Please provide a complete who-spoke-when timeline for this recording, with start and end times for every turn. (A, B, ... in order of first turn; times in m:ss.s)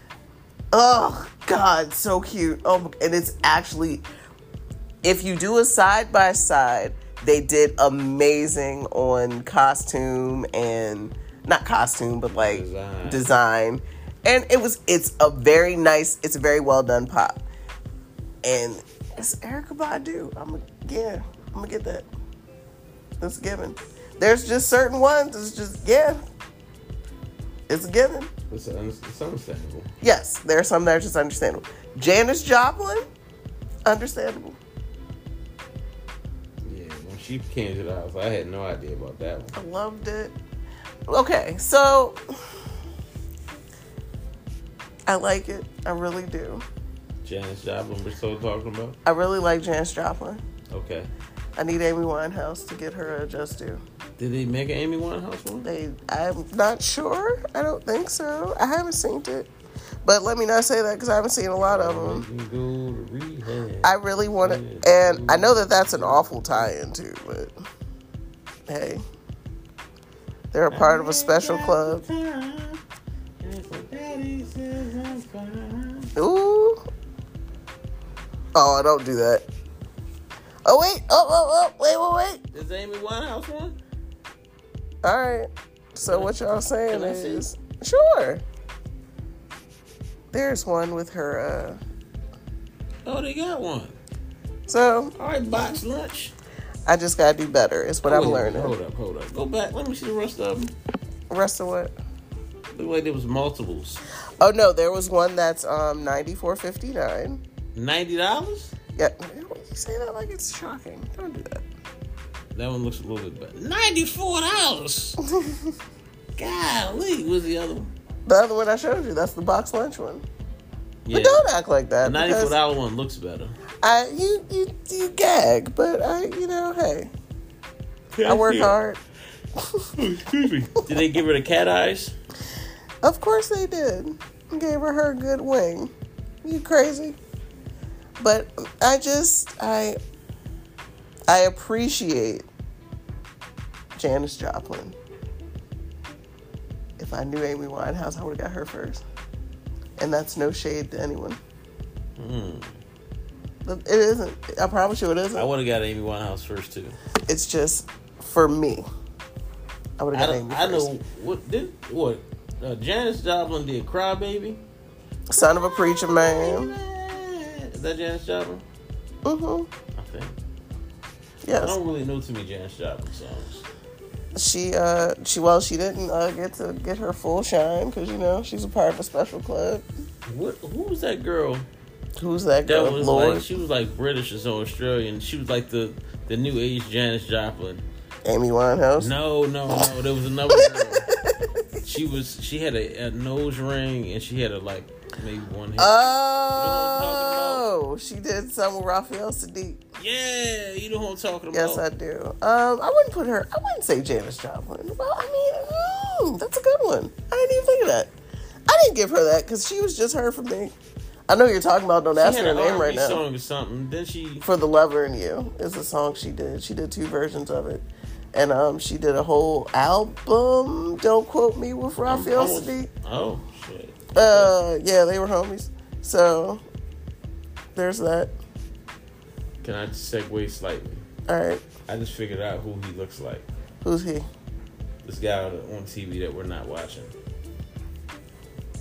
0:00.7-0:04.0 A
0:05.0-0:17.4 A
0:12.4-0:13.3 B
0:18.4-0:22.1 A
0:23.2-0:26.2 A
0:27.7-0:28.3 A
0:28.5-0:29.9 B
0:30.0-0:33.0 A
0:33.8-0:34.6 A
0:36.6-0:39.6 B
0:39.5-0:40.3 A
0:41.1-0:42.2 A
0:45.1-0:46.6 A
0:47.2-0:49.0 B
0:49.0-0:50.4 A
0:50.7-0:51.1 B
0:51.6-0:53.8 A
0:54.2-0:55.7 B
0:55.6-0:59.5 A
1:00.0-1:02.2 A
1:01.6-1:06.7 B
1:03.8-1:07.5 A
1:08.7-1:09.0 A
1:10.5-1:12.0 A
1:10.7-1:12.8 B
1:13.4-1:16.1 B
1:16.2-1:16.8 A
1:18.5-1:19.4 A
1:20.6-1:22.4 A
1:22.5-1:23.8 B
1:25.0-1:28.4 A
1:26.0-1:27.5 B
1:30.3-1:31.8 A
1:33.0-1:34.0 B
1:34.7-1:35.1 A
1:35.2-1:36.3 B
1:36.8-1:38.7 A
1:38.0-1:40.7 B
1:41.3-1:41.9 A
1:42.7-1:44.0 B
1:44.4-1:47.4 A
1:47.7-1:48.7 B
1:49.0-1:51.6 A
1:52.5-1:55.2 B
1:55.2-1:55.7 A
1:56.4-1:57.9 B
1:58.2-2:00.2 A
2:01.0-2:01.4 B
2:01.1-2:02.6 A
2:02.0-2:03.6 B
2:03.8-2:07.1 A
2:08.1-2:08.7 B
2:08.2-2:09.0 A
2:10.0-2:12.1 B
2:13.0-2:15.9 A
2:16.4-2:17.2 A
2:18.2-2:20.0 A
2:21.3-2:22.5 A
2:24.0-2:24.9 A
2:27.0-2:29.0 A
2:30.0-2:31.4 A
2:32.2-2:32.7 B
2:33.6-2:35.5 A
2:35.3-2:37.0 B
2:37.3-2:38.9 A
2:40.0-2:40.9 A
2:40.1-2:44.6 B
2:45.3-2:46.7 A
2:45.4-2:48.6 B
2:49.2-2:49.7 A
2:50.0-2:50.3 B
2:51.4-2:51.8 A
2:51.5-2:53.6 B
2:54.3-2:59.8 A
3:00.2-3:01.7 B
3:02.2-3:03.5 A
3:02.7-3:07.8 B
3:08.2-3:09.1 A
3:09.0-3:11.1 B
3:10.5-3:11.8 A
3:11.8-3:16.0 B
3:15.8-3:19.8 A
3:16.5-3:17.6 B
3:20.0-3:21.8 B
3:21.5-3:28.1 A
3:28.7-3:30.7 A
3:31.3-3:33.2 A
3:32.2-3:34.4 B
3:34.4-3:42.9 A
3:42.0-3:44.6 B
3:44.1-3:46.6 A
3:47.7-3:48.3 A
3:49.6-3:51.0 B
3:51.3-3:51.6 A
3:51.9-3:53.4 B
3:53.8-3:54.3 A
3:55.0-3:57.1 B